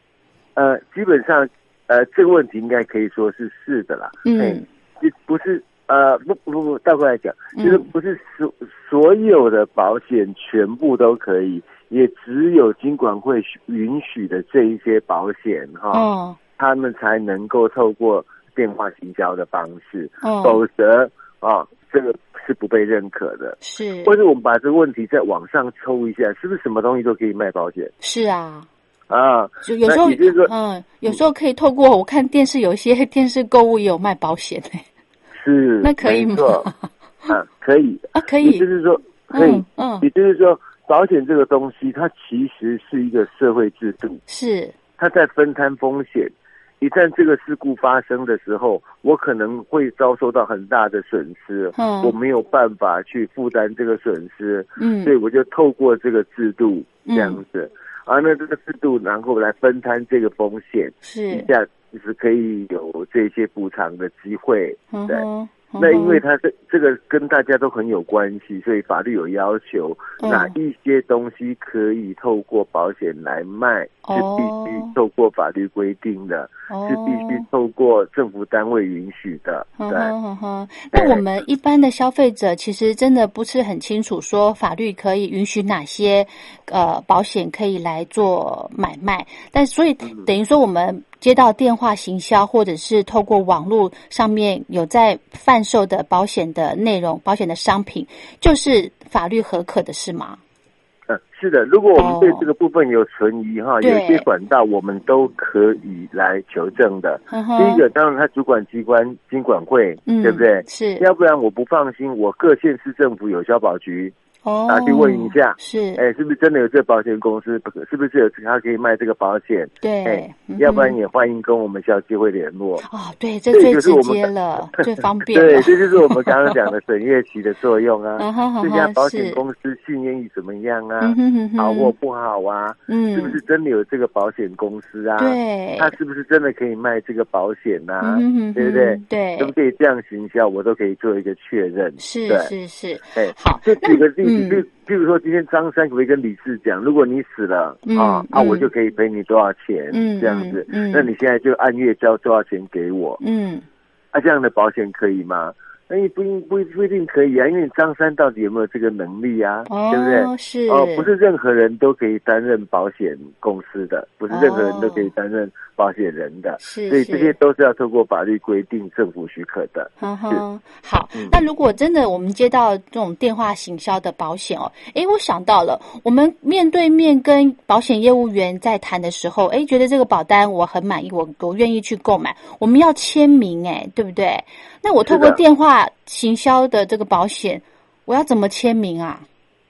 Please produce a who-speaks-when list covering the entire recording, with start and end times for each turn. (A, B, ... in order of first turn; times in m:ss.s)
0:00.6-0:16.1 A
0:04.2-0:04.6 B
0:07.6-0:07.9 B
0:15.9-0:16.4 B
0:16.6-0:27.9 A
0:20.2-0:20.6 B
0:23.6-0:24.2 B
0:28.0-0:28.7 B
0:29.1-0:30.5 A
0:29.6-0:34.8 B
0:35.4-0:36.7 A
0:35.8-0:37.3 B
0:37.3-0:44.2 A
0:38.2-0:38.7 B
0:39.3-0:40.1 B
0:44.3-0:44.8 B
0:45.0-1:05.2 A
0:51.8-0:52.2 B
0:54.8-0:55.1 B
0:57.1-0:57.4 B
1:01.0-1:01.5 B
1:04.9-1:06.2 B
1:05.8-1:20.1 A
1:10.2-1:10.6 B
1:14.0-1:14.9 B
1:16.7-1:17.4 B
1:19.8-1:40.4 B
1:20.9-1:21.2 A
1:41.1-1:54.1 A
1:42.0-1:42.5 B
1:43.8-1:44.2 B
1:47.3-1:47.8 B
1:50.1-1:51.1 B
1:54.4-1:56.0 B
1:54.7-2:02.8 A
1:59.8-2:01.0 B
2:02.8-2:06.5 B
2:03.5-2:22.5 A
2:08.2-2:09.4 B
2:11.0-2:11.9 B
2:12.9-2:13.4 B
2:15.2-2:16.0 B
2:18.0-2:19.5 B
2:22.0-2:24.6 B
2:23.2-2:33.2 A
2:27.9-2:28.7 B
2:29.9-2:31.1 B
2:33.2-2:33.7 B
2:34.1-2:50.4 A
2:39.7-2:41.1 B
2:44.3-2:45.1 B
2:46.6-2:47.4 B
2:50.0-3:09.3 B
3:05.0-3:05.4 A